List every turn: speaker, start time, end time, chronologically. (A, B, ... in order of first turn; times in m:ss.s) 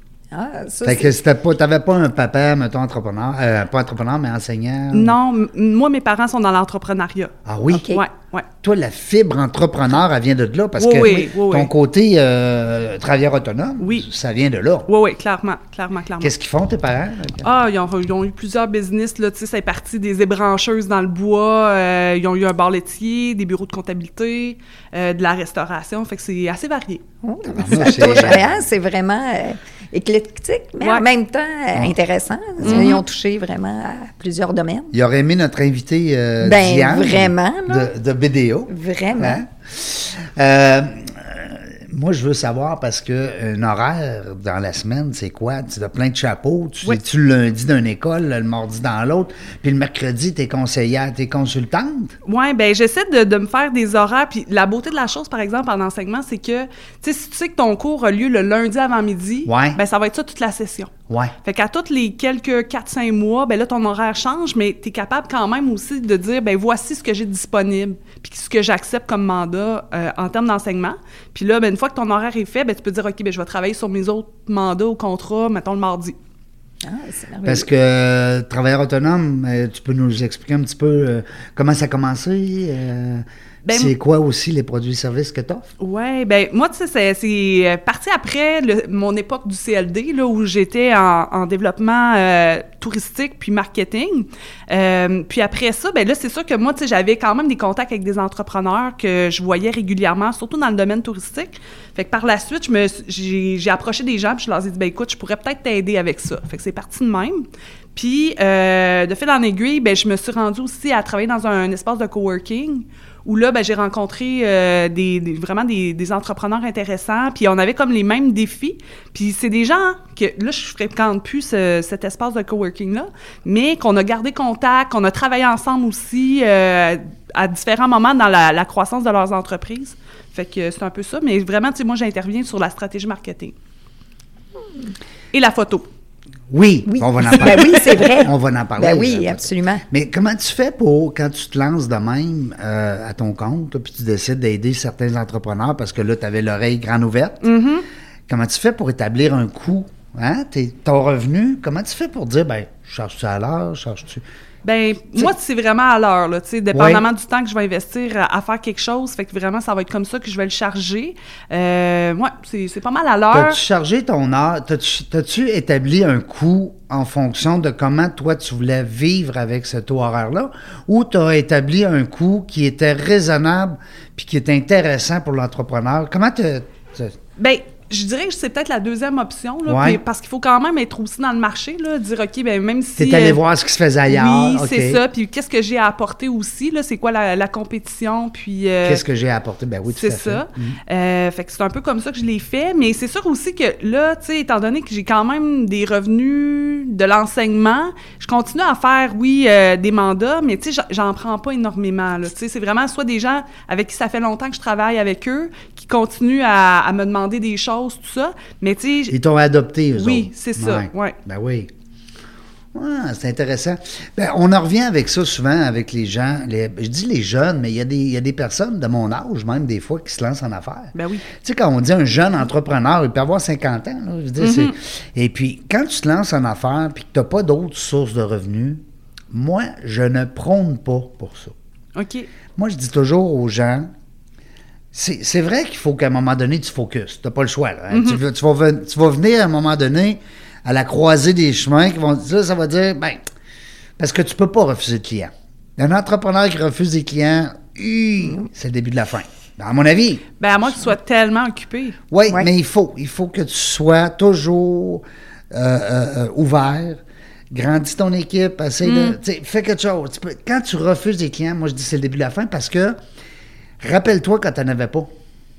0:00.3-0:01.2 A
0:00.8-0:05.2 B
0:04.9-0:07.3 C
0:07.4-0:07.9 B
0:07.7-0:08.0 A
0:07.9-0:08.5 C
0:08.6-0:14.9 B
0:10.8-0:11.7 C
0:13.8-0:14.0 C
0:14.9-0:16.3 C
0:16.2-0:17.5 B
0:17.4-0:27.0 C
0:27.2-0:34.9 A
0:27.5-0:28.6 B
0:32.6-0:33.0 B
0:32.6-0:33.0 C
0:34.9-0:52.1 B
0:36.4-0:37.9 A
0:38.7-0:39.4 A
0:52.2-1:16.2 C
0:59.4-0:59.8 B
1:16.8-1:17.7 A
1:17.4-1:25.7 B
1:23.6-1:23.9 C
1:25.8-2:13.5 C
2:15.3-2:15.9 C
2:16.5-2:27.5 B
2:16.9-2:19.8 A
2:27.4-2:27.8 C
2:28.3-2:34.2 B
2:34.6-2:43.6 C
2:36.7-2:37.0 B
2:43.3-2:57.1 B
2:57.4-3:03.4 C
2:59.6-3:00.0 B
3:03.0-3:05.0 B
3:04.1-3:09.0 C
3:08.8-3:10.8 B
3:09.9-3:29.2 C
3:29.1-3:31.7 B
3:29.9-3:31.2 C
3:32.7-3:51.6 B
3:40.9-3:41.3 C
3:44.4-3:44.7 C
3:52.0-3:52.3 C
3:52.6-3:53.9 B
3:54.9-4:03.2 B
3:57.9-3:58.2 C
4:04.0-4:10.3 B
4:10.4-4:12.0 C
4:12.1-4:17.0 B
4:17.5-4:23.0 B
4:18.8-4:19.2 C
4:23.8-4:25.1 B